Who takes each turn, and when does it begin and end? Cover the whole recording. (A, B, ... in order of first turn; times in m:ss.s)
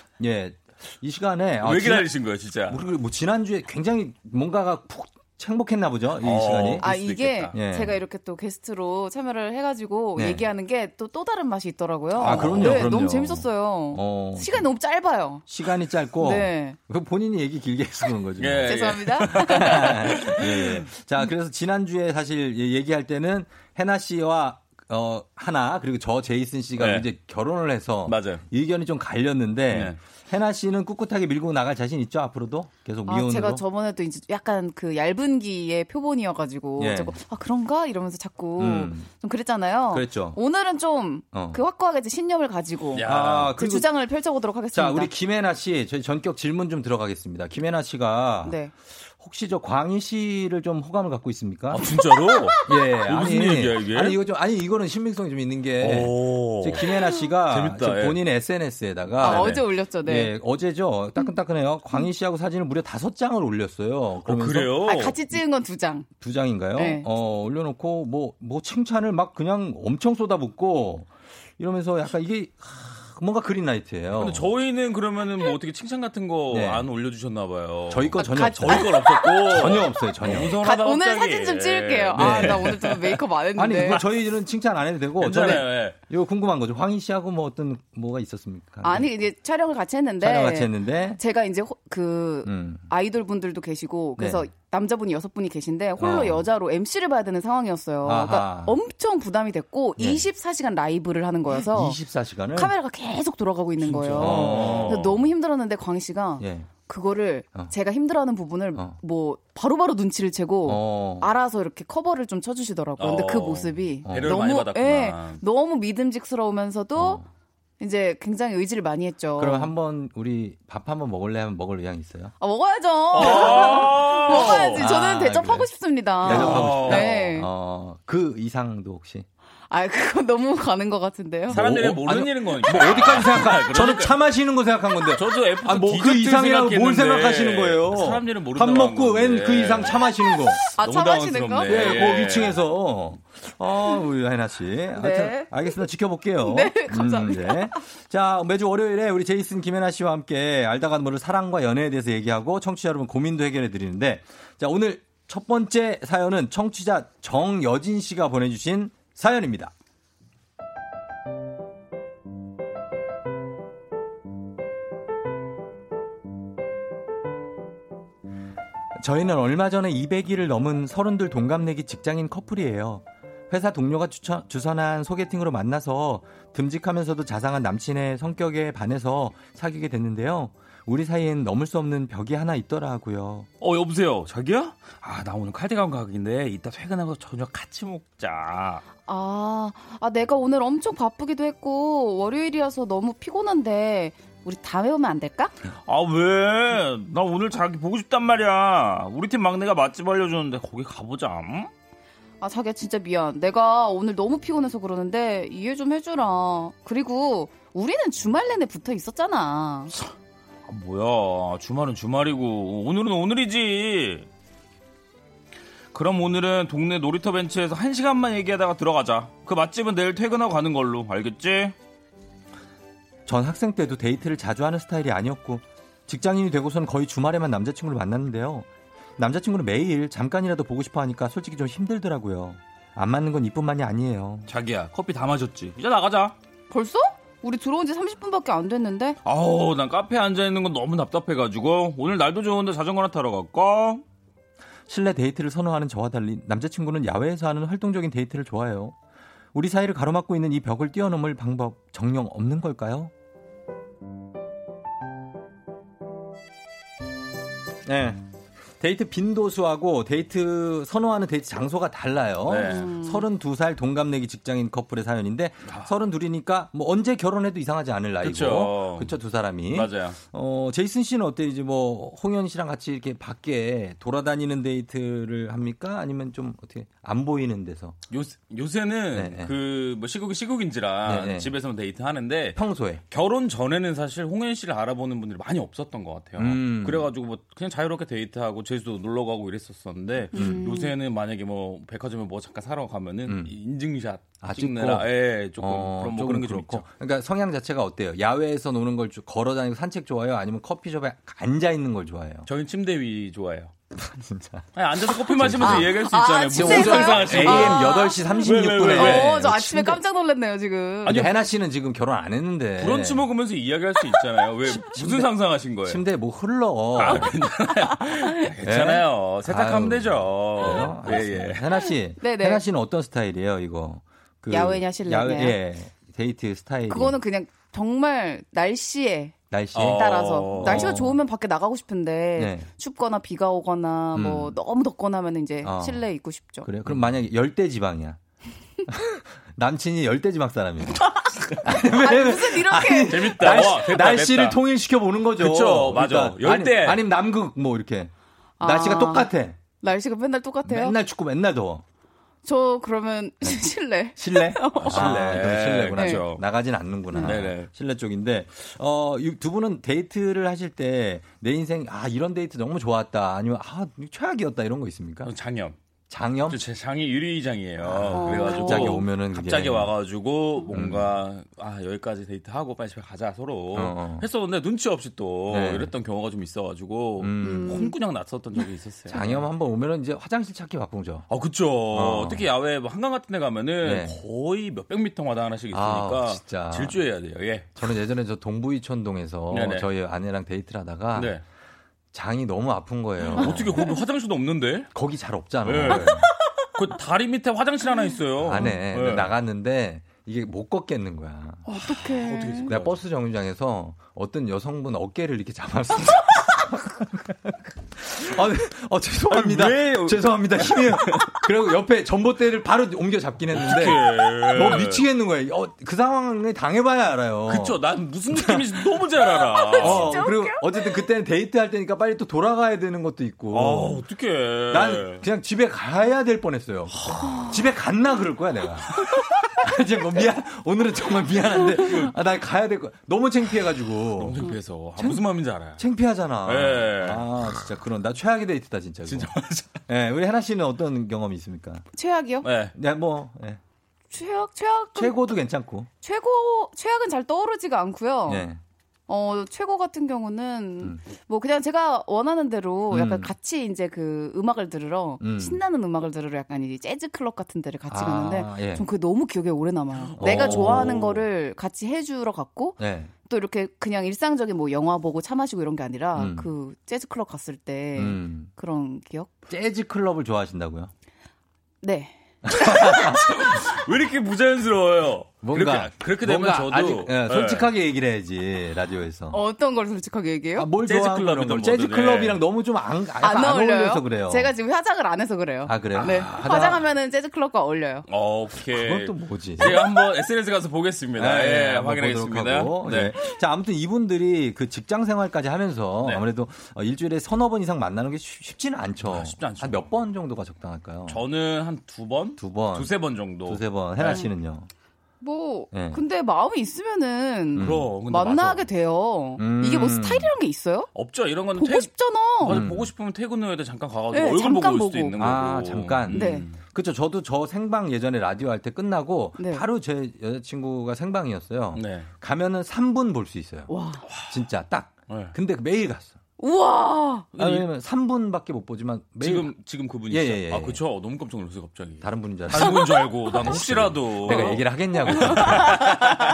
0:00.2-0:02.1 A
0:01.6-0:02.8 B
0:02.7-0:06.9 A
0:06.1-0:07.6 B
0:06.8-0:15.4 C
0:07.5-0:08.0 A
0:10.2-0:10.4 A
0:12.1-0:14.7 A
0:12.2-0:12.8 B
0:15.5-0:33.6 A
0:16.2-0:16.8 C
0:18.4-0:20.7 B
0:18.6-0:20.2 C
0:26.8-0:27.1 B
0:28.0-0:28.4 B
0:29.7-0:30.0 B
0:33.0-0:45.1 C
0:36.8-0:37.1 A
0:38.6-0:39.1 A
0:39.9-0:40.4 A
0:41.3-0:41.6 A
0:42.9-0:43.5 B
0:43.0-0:43.9 A
0:44.7-0:51.8 A
0:48.4-0:48.7 C
0:51.7-0:54.2 B
0:52.6-1:04.8 A
0:55.8-0:56.9 B
0:57.4-0:58.2 B
0:59.2-1:00.3 C
0:59.2-0:59.6 B
1:04.2-1:05.1 B
1:04.8-1:06.1 C
1:06.2-1:14.5 A
1:06.7-1:07.0 C
1:14.1-1:23.2 B
1:16.5-1:16.9 A
1:17.9-1:20.6 A
1:18.2-1:19.4 C
1:20.5-1:24.0 C
1:22.1-1:22.7 A
1:23.6-1:29.1 A
1:25.2-1:26.0 B
1:28.8-1:42.0 C
1:30.2-1:31.2 A
1:32.4-1:32.9 A
1:34.2-1:34.5 A
1:36.0-1:36.4 A
1:38.0-1:38.8 A
1:40.0-1:40.2 A
1:41.5-1:42.7 A
1:42.5-1:57.2 C
1:43.8-1:45.2 A
1:44.1-1:45.1 B
1:46.4-1:46.7 A
1:50.6-1:51.3 A
1:53.0-1:55.4 B
1:54.1-1:54.3 A
1:57.0-1:57.2 A
1:57.8-1:59.7 C
1:59.4-2:02.3 A
2:02.4-2:07.5 C
2:03.1-2:04.9 B
2:03.2-2:03.5 A
2:04.3-2:05.7 A
2:06.2-2:07.2 B
2:06.2-2:09.2 A
2:09.7-2:11.6 C
2:11.5-2:20.6 A
2:11.5-2:14.2 B
2:15.1-2:20.1 B
2:20.3-2:22.0 C
2:20.8-2:22.6 B
2:21.7-2:39.7 A
2:24.9-2:25.8 C
2:26.4-2:27.8 C
2:49.0-3:03.5 A
3:03.6-3:08.8 B
3:09.0-3:15.6 C
3:15.8-3:21.7 B
3:22.4-3:29.9 C
3:30.6-3:34.3 B
3:35.9-3:41.7 B
3:43.2-3:48.7 A
3:49.2-3:54.5 A
3:54.5-3:56.3 B
3:56.7-3:59.2 C
3:59.2-4:04.0 B
4:04.9-4:09.0 A
4:09.5-4:13.1 A
4:17.8-4:18.2 A
4:18.8-4:38.0 A
4:22.4-4:22.9 B
4:22.6-4:23.2 C
4:25.6-4:25.9 B
4:28.2-4:29.1 B
4:29.7-4:30.2 B
4:38.1-4:56.9 B
4:39.1-4:39.5 A
4:41.1-4:41.5 A
4:42.6-4:43.0 A
4:46.4-4:47.1 A
4:50.3-4:50.9 C
4:50.4-4:50.6 A
4:54.4-5:02.5 A
5:02.5-5:03.7 B
5:03.9-5:06.0 A
5:04.8-5:09.4 B
5:05.6-5:11.2 C
5:06.5-5:10.0 A
5:11.0-5:13.2 A
5:12.8-5:16.0 B
5:14.6-5:15.3 A
5:15.8-5:17.3 A
5:16.9-5:21.7 B
5:18.6-5:27.2 A
5:22.2-5:22.6 C
5:24.5-5:25.6 C
5:26.9-5:36.7 C
5:29.5-5:31.2 A
5:29.7-5:31.0 B
5:32.4-5:32.7 A
5:34.1-5:34.6 A
5:35.6-5:36.0 A
5:36.6-5:38.2 A
5:36.8-5:37.1 B
5:38.9-5:49.6 A
5:41.0-5:43.2 C
5:43.1-5:44.6 B
5:45.3-5:47.0 B
5:48.6-5:51.0 C
5:50.6-5:51.8 A
5:52.4-5:55.2 C
5:54.2-6:05.3 A
5:54.8-5:56.4 B
5:55.9-5:56.2 C
5:57.1-5:57.7 B
6:05.2-6:05.8 B
6:06.1-6:06.6 A
6:06.5-6:19.4 B
6:07.8-6:09.9 A
6:08.1-6:08.9 C
6:10.7-6:11.1 A
6:13.7-6:14.2 A
6:15.5-6:15.9 A
6:17.2-6:17.9 A
6:17.4-6:17.9 C
6:19.1-6:21.3 A
6:21.3-6:27.8 B
6:21.9-6:22.4 A
6:23.8-6:24.2 A
6:25.7-6:27.0 A
6:27.8-6:31.4 A
6:29.5-6:29.9 B
6:31.1-6:31.4 B
6:32.1-6:33.9 A
6:33.2-6:34.9 B
6:34.9-6:36.2 A
6:35.6-6:36.2 B
6:36.8-6:39.3 B
6:38.4-6:41.8 A
6:41.6-6:42.7 C
6:41.9-6:42.9 B
6:42.7-6:57.8 A
6:49.2-6:51.4 B
6:53.5-6:55.0 B
6:57.5-7:00.2 B
6:58.3-6:58.6 A
6:59.5-7:01.0 C
6:59.8-7:04.0 A
7:03.5-7:05.2 B
7:04.7-7:14.4 A
7:07.0-7:07.3 B
7:11.8-7:12.1 B
7:14.2-7:15.8 B
7:15.8-7:19.3 A
7:16.4-7:17.3 B
7:19.0-7:19.8 B
7:19.9-7:21.8 A
7:21.9-7:22.5 C
7:22.4-7:22.7 B
7:22.7-7:23.6 A
7:24.1-7:25.2 C
7:25.0-7:25.9 A
7:26.0-7:28.5 C
7:28.3-7:28.6 A
7:29.1-7:49.3 C
7:32.9-7:33.3 A
7:35.2-7:35.6 A
7:37.9-7:38.8 A
7:40.0-7:41.2 B
7:40.2-7:41.0 A
7:42.8-7:43.1 A
7:46.1-7:46.5 A
7:48.0-7:48.5 A
7:49.5-7:50.9 A
7:51.8-7:52.2 C
7:52.5-7:53.2 A
7:52.9-7:57.7 B
7:55.4-7:59.4 A
7:59.3-8:00.7 C
8:00.6-8:04.5 A
8:00.7-8:02.4 B
8:03.2-8:08.0 C
8:05.7-8:06.8 A
8:06.0-8:06.4 B
8:08.1-8:13.2 B
8:08.7-8:09.8 A
8:11.2-8:21.2 A
8:19.0-8:19.9 B
8:21.1-8:24.2 B
8:22.4-8:22.9 A
8:23.4-8:24.7 A
8:25.2-8:30.9 C
8:25.7-8:26.0 A
8:27.5-8:28.6 B
8:27.6-8:27.9 A
8:29.4-8:30.3 A
8:30.9-8:31.9 B
8:31.5-8:32.6 C
8:32.4-8:36.6 B
8:32.4-8:32.9 A
8:34.1-8:35.2 C
8:35.2-8:43.7 A
8:36.1-8:36.5 C
8:39.4-8:39.6 C
8:41.7-8:42.1 B
8:43.7-8:44.0 C
8:44.1-8:44.4 B
8:44.2-8:46.2 A
8:45.1-8:45.4 B
8:46.4-8:47.3 C
8:47.4-8:47.7 B
8:47.4-8:49.5 A
8:49.2-8:56.2 B
8:50.1-8:50.8 A
8:52.0-8:52.9 A
8:53.4-8:55.7 A
8:55.2-8:55.7 C